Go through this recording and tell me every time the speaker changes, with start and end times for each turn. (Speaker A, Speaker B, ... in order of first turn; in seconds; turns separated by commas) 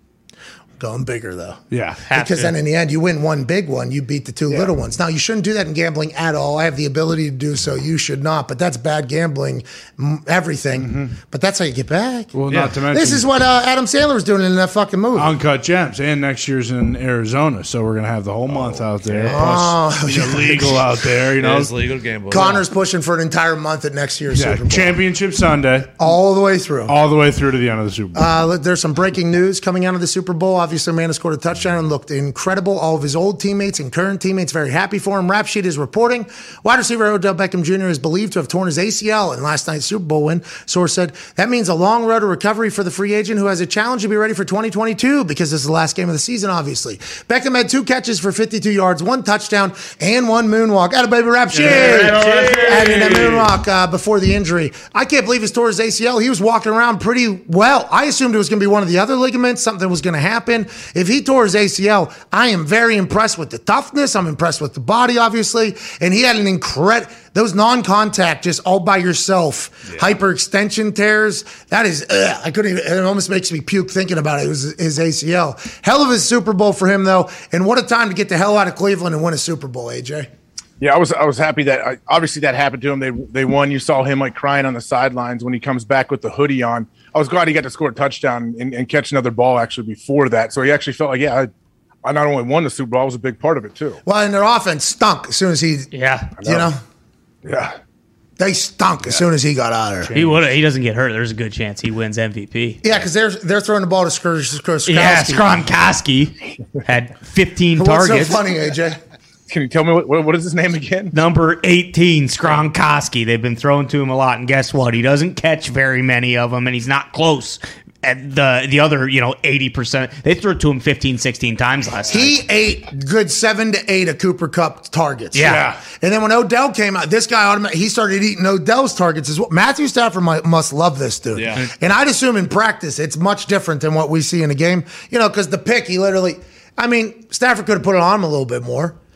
Speaker A: 0.8-12.3, Speaker B: 1.7-2.5, Speaker C: 2.1-2.4, Speaker B: 10.8-11.1, Speaker B: 12.3-13.3, Speaker D: 12.5-12.8, Speaker A: 12.9-15.3, Speaker B: 15.1-21.7, Speaker D: 18.5-19.4, Speaker A: 19.3-20.8, Speaker D: 21.4-22.6, Speaker A: 22.3-25.0, Speaker B: 24.3-25.9, Speaker A: 26.0-26.9, Speaker B: 26.9-28.3, Speaker A: 28.1-80.3, Speaker B: 51.5-53.4, Speaker D: 52.2-52.7, Speaker E: 80.8-91.5, Speaker E: 92.0-94.0, Speaker A: 94.0-95.9, Speaker C: 95.9-96.3, Speaker E: 96.4-96.7, Speaker A: 96.4-96.8, Speaker E: 97.4-97.8, Speaker A: 98.4-100.1, Speaker C: 100.1-102.8, Speaker A: 102.8-105.4, Speaker C: 104.9-108.4, Speaker A: 107.8-109.0, Speaker E: 109.5-111.1, Speaker C: 111.1-122.3, Speaker A: 122.1-138.9, Speaker C: 125.3-125.8, Speaker B: 125.4-125.8, Speaker D: 131.3-131.7